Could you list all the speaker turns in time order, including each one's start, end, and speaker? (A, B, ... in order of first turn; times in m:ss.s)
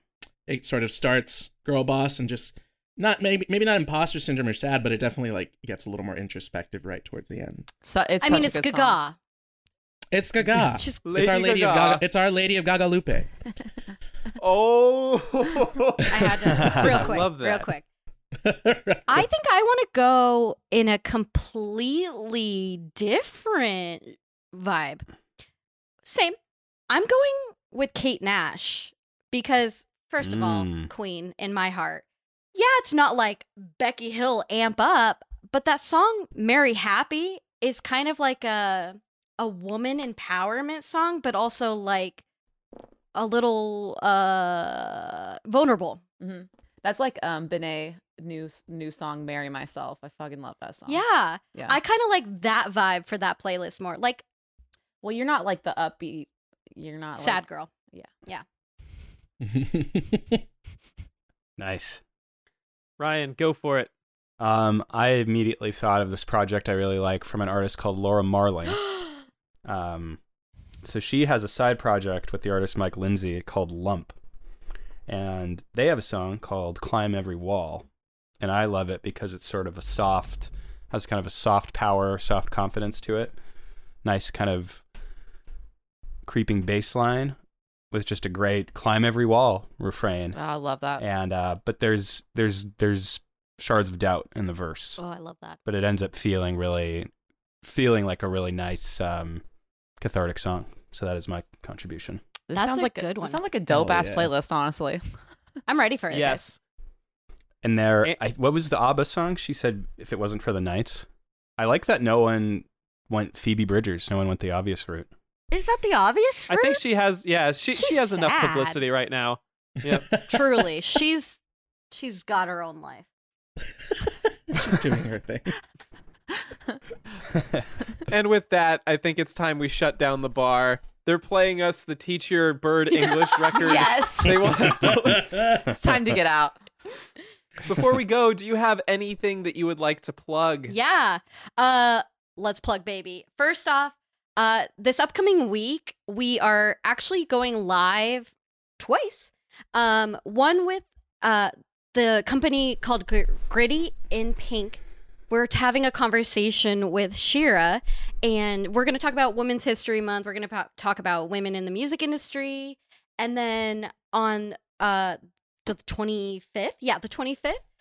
0:00.5-0:07.7 A
0:07.8-0:09.0 B
0:08.2-0:09.2 C
0:10.1-0:13.5 A
0:10.8-0:11.0 C
0:11.0-0:12.0 D
0:14.4-0:15.9 D
0:16.1-0:17.8 C
0:16.5-0:17.1 E
0:16.6-0:17.7 D
0:18.4-0:19.2 A
0:19.1-0:25.0 C
0:26.0-0:26.4 C
0:26.9-0:42.2 C
0:30.2-0:30.9 E
0:43.1-0:46.0 C
0:46.2-0:51.8 B
0:50.9-0:54.2 C
0:55.0-0:58.1 B
0:57.2-0:57.7 C
0:59.4-1:00.4 A
1:01.6-1:02.0 E
1:03.0-1:03.9 D
1:04.4-1:08.9 E
1:09.6-1:10.2 E
1:10.8-1:14.2 E
1:15.1-1:17.9 E
1:18.4-1:23.4 E
1:24.0-1:24.8 E
1:26.2-1:27.4 E
1:27.9-1:30.4 E
1:30.3-1:31.0 B
1:31.0-1:35.0 E
1:35.0-1:35.6 C
1:35.6-1:37.1 E
1:37.6-1:39.4 E
1:40.0-1:42.2 E
1:42.5-1:45.0 B
1:42.5-1:43.4 C
1:43.7-1:44.3 A
1:45.7-1:46.5 C
1:46.1-1:46.6 D
1:47.6-1:51.1 E
1:51.6-1:55.1 E
1:55.5-1:56.8 C
1:56.5-2:00.2 D
1:57.7-1:58.8 C
1:59.8-2:00.5 A
2:00.3-2:01.4 C
2:01.9-2:03.0 C
2:04.5-2:05.5 A
2:08.1-2:15.3 D
2:12.9-2:13.8 C
2:13.6-2:14.6 B
2:14.4-2:15.7 A
2:15.6-2:16.6 B
2:17.6-2:20.7 D
2:20.7-2:47.6 C